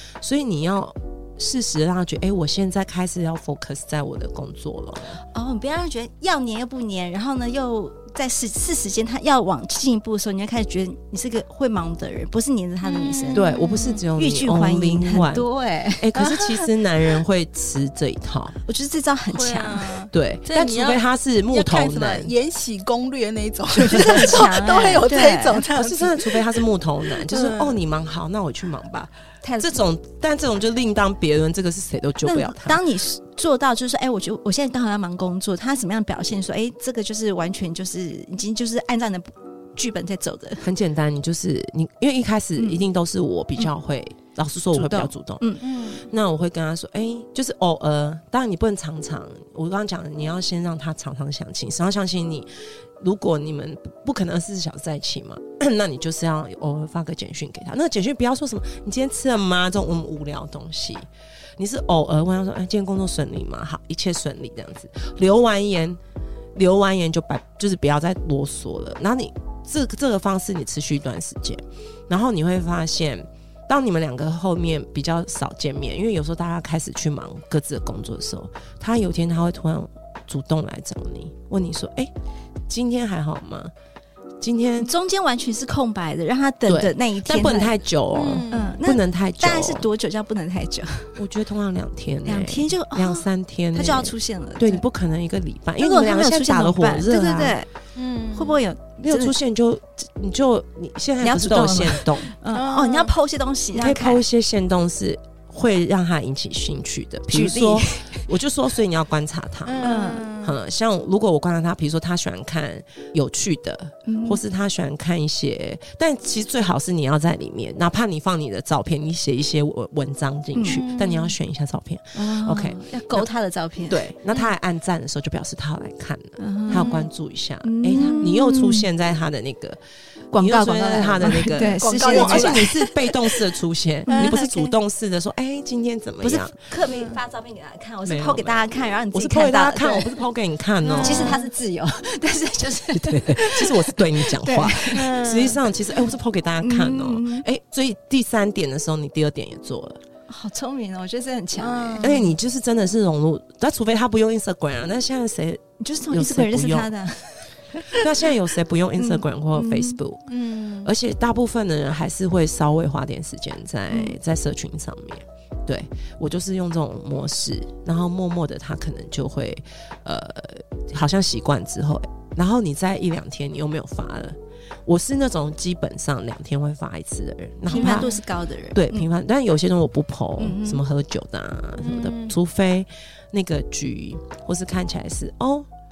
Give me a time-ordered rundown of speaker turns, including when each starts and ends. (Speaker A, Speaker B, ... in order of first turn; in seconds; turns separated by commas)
Speaker A: 0.2-5.2, Speaker B: 5.2-13.5, Speaker C: 12.8-14.0, Speaker A: 13.3-15.4, Speaker B: 14.2-16.1, Speaker A: 16.0-18.6, Speaker B: 18.6-19.9, Speaker C: 19.3-26.6, Speaker A: 20.1-22.3, Speaker B: 23.8-25.6, Speaker A: 25.7-32.8, Speaker C: 27.2-27.8, Speaker B: 29.4-29.8, Speaker B: 32.2-40.6, Speaker A: 40.6-52.5, Speaker B: 42.6-42.9, Speaker B: 44.5-45.6, Speaker C: 45.6-46.0, Speaker A: 53.0-61.1, Speaker A: 61.6-66.0, Speaker A: 66.5-82.1, Speaker A: 82.7-83.7, Speaker A: 84.4-84.9, Speaker B: 84.8-87.8, Speaker A: 86.7-89.9, Speaker C: 88.1-88.7, Speaker B: 88.5-91.2, Speaker A: 91.2-97.6, Speaker B: 92.2-94.8, Speaker B: 95.8-97.7, Speaker C: 97.9-98.6, Speaker B: 98.3-99.4, Speaker A: 99.0-102.3, Speaker B: 101.2-104.2, Speaker C: 102.5-103.1, Speaker A: 103.7-123.3, Speaker B: 107.3-108.3, Speaker C: 109.7-110.6, Speaker B: 109.8-110.3, Speaker B: 114.1-114.4, Speaker B: 120.5-120.8, Speaker C: 120.7-121.3, Speaker B: 122.1-124.1, Speaker A: 123.9-129.8, Speaker B: 126.4-127.0, Speaker C: 126.7-127.0, Speaker B: 127.6-128.8, Speaker B: 130.3-132.8, Speaker A: 130.3-136.6, Speaker C: 131.5-133.0, Speaker B: 134.1-134.7, Speaker C: 134.1-134.3, Speaker B: 136.2-140.2, Speaker C: 136.9-137.2, Speaker A: 138.1-141.4, Speaker C: 140.8-141.4, Speaker B: 141.0-145.2, Speaker A: 142.8-150.0, Speaker C: 144.9-145.6, Speaker B: 146.6-147.4, Speaker B: 150.3-152.3, Speaker C: 151.6-152.2, Speaker A: 152.0-156.9, Speaker B: 155.8-158.1, Speaker A: 157.9-178.2, Speaker B: 159.0-160.0, Speaker C: 160.3-160.9, Speaker B: 177.7-179.1, Speaker C: 177.7-178.2, Speaker A: 178.7-185.7, Speaker B: 180.4-180.8, Speaker C: 181.8-182.3